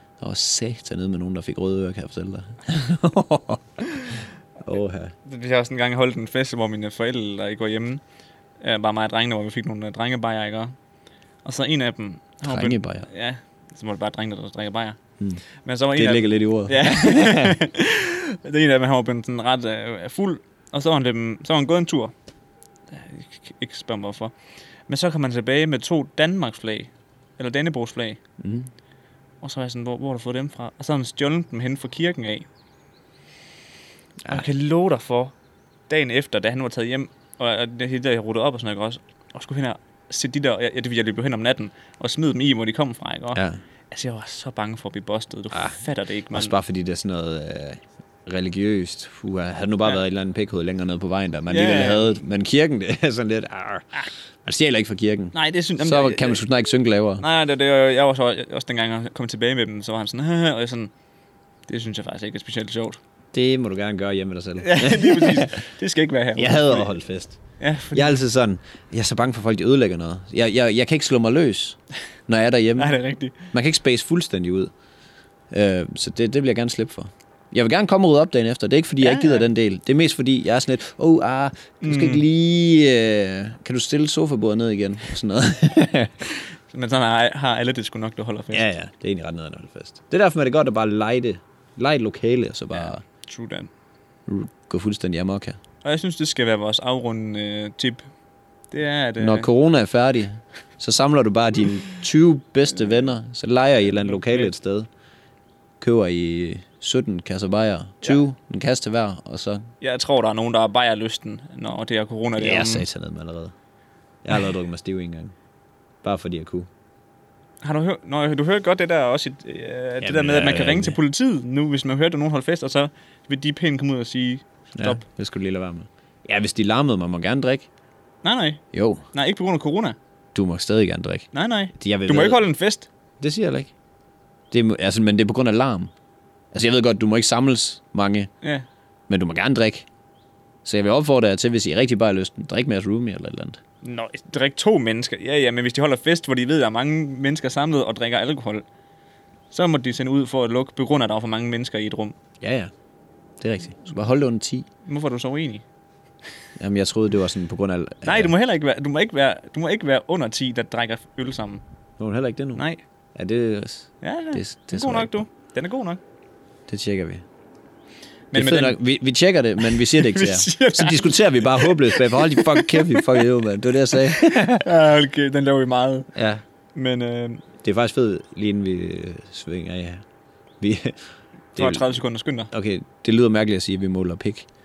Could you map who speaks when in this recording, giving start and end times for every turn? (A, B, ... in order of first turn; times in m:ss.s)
0:00.2-0:05.1 A
0:05.3-0:08.0 B
0:08.6-0:10.8 B
0:11.4-0:15.0 B
0:12.4-0:13.1 A
0:15.6-0:22.1 B
0:16.0-0:17.6 A
0:22.9-0:24.3 B
0:24.9-0:28.2 B
0:28.4-0:28.7 A
0:29.4-0:32.5 B
0:34.3-0:35.3 B
0:35.9-0:46.6 B
0:43.3-0:43.6 A
0:45.5-0:45.8 A
0:46.3-0:57.2 A
0:51.5-0:52.2 B
0:55.3-0:56.4 B
0:57.2-1:00.9 B
1:01.7-1:03.0 B
1:03.3-1:05.6 A
1:04.6-1:06.9 B
1:06.4-1:07.4 A
1:07.6-1:08.2 B
1:07.9-1:11.8 A
1:12.3-1:13.0 A
1:12.8-1:13.5 B
1:13.5-1:14.7 A
1:15.5-1:26.3 A
1:19.0-1:19.4 B
1:21.8-1:22.2 B
1:26.3-1:28.7 B
1:28.5-1:33.0 A
1:32.8-1:33.7 B
1:34.3-1:35.6 A
1:35.8-1:38.1 B
1:38.7-1:39.5 B
1:39.2-1:44.9 A
1:44.1-1:44.5 B
1:45.8-1:49.6 A
1:49.8-1:52.9 B
1:52.4-1:53.5 A
1:54.2-1:55.3 A
1:56.0-1:56.7 A
1:57.6-2:05.0 B
2:00.0-2:01.0 A
2:04.8-2:07.7 A
2:08.2-2:08.6 B
2:08.7-2:09.0 A
2:09.1-2:10.0 B
2:10.4-2:12.4 A
2:11.3-2:12.9 B
2:13.2-2:13.7 A
2:14.5-2:15.9 A
2:16.5-2:18.3 A
2:19.1-2:19.9 A
2:20.6-2:23.6 A
2:23.8-2:28.6 B
2:29.5-2:32.2 B
2:32.4-2:32.7 A
2:33.4-2:34.7 A
2:34.9-2:35.6 B
2:36.6-2:38.3 A
2:38.0-2:41.6 B
2:42.0-2:42.6 A
2:42.6-2:42.8 B
2:43.2-2:45.2 A
2:44.0-2:46.0 B
2:46.7-2:47.2 A
2:48.3-2:48.8 B
2:48.3-2:54.7 A
2:49.6-2:53.2 B
2:53.9-2:56.1 B
2:56.1-2:56.4 A
2:56.8-2:57.4 B
2:57.6-3:00.0 A
3:00.6-3:01.0 A
3:01.6-3:02.0 A
3:01.6-3:02.5 B
3:02.5-3:04.5 A